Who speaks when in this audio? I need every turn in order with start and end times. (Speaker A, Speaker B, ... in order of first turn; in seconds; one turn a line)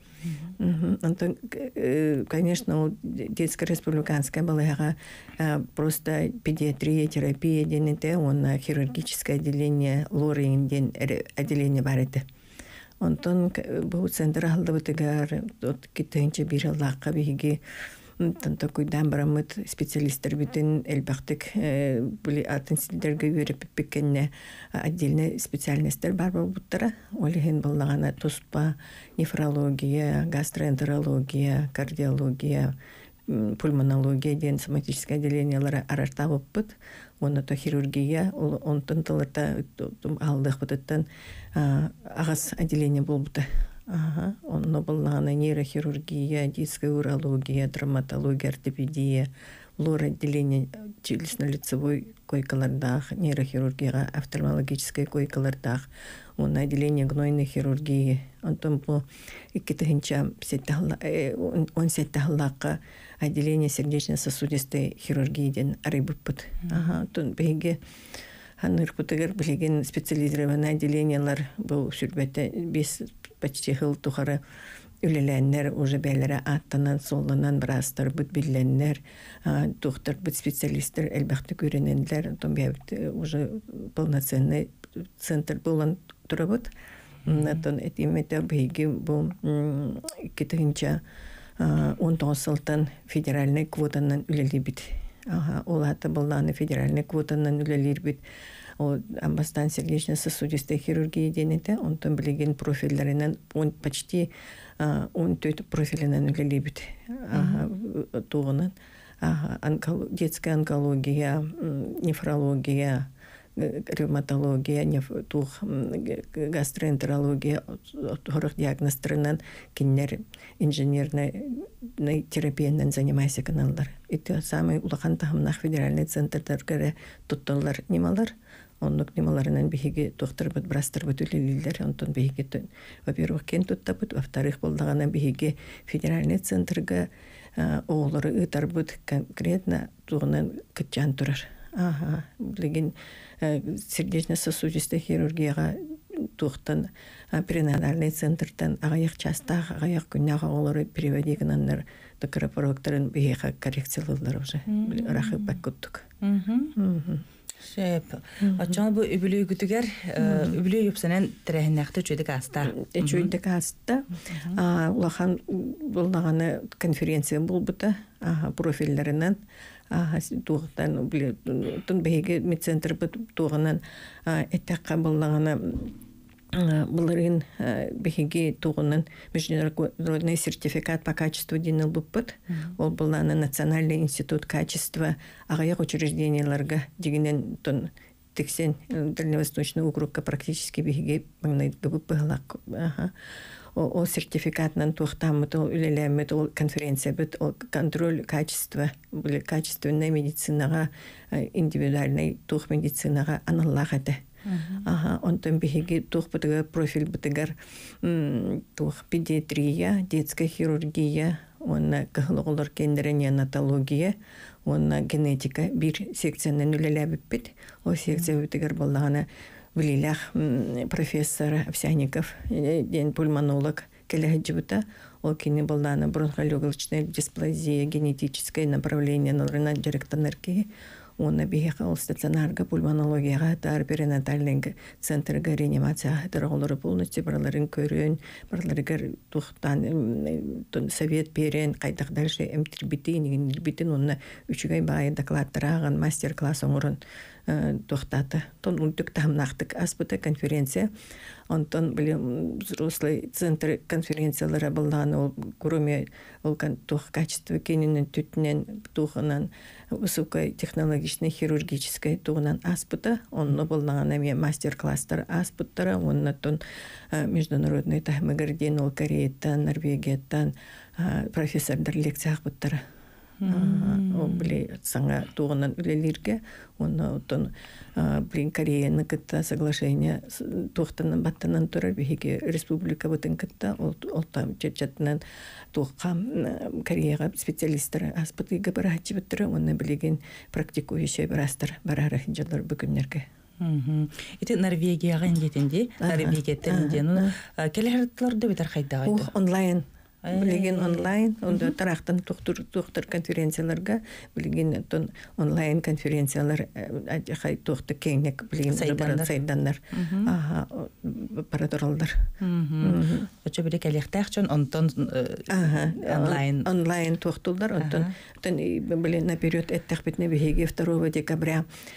Speaker A: 0.6-12.2
Speaker A: 13.0-17.6
Speaker A: 18.2-32.7
Speaker A: 33.3-67.8
Speaker A: 68.6-74.4
Speaker A: 75.0-86.7
Speaker A: 87.2-91.0
Speaker A: 91.6-98.2
Speaker A: 98.8-156.1
Speaker B: 107.3-107.7
Speaker B: 154.7-155.6
Speaker B: 156.2-156.7
Speaker A: 156.8-157.2
Speaker B: 157.6-163.3
Speaker A: 158.4-158.8
Speaker A: 160.2-160.6
Speaker A: 162.7-169.4
Speaker B: 164.3-164.6
Speaker A: 169.9-176.0
Speaker A: 176.5-193.1
Speaker B: 182.5-182.8
Speaker A: 193.7-204.2
Speaker B: 204.4-204.9
Speaker A: 204.8-250.9
Speaker A: 251.5-272.8
Speaker B: 273.4-274.5
Speaker A: 273.4-285.2
Speaker A: 285.7-293.2
Speaker B: 293.6-299.3
Speaker A: 296.0-297.3
Speaker A: 299.0-312.3
Speaker B: 300.2-301.7
Speaker B: 308.7-309.4
Speaker B: 309.9-310.3
Speaker B: 312.4-316.7
Speaker A: 312.8-313.3
Speaker A: 315.5-321.7
Speaker B: 317.8-318.1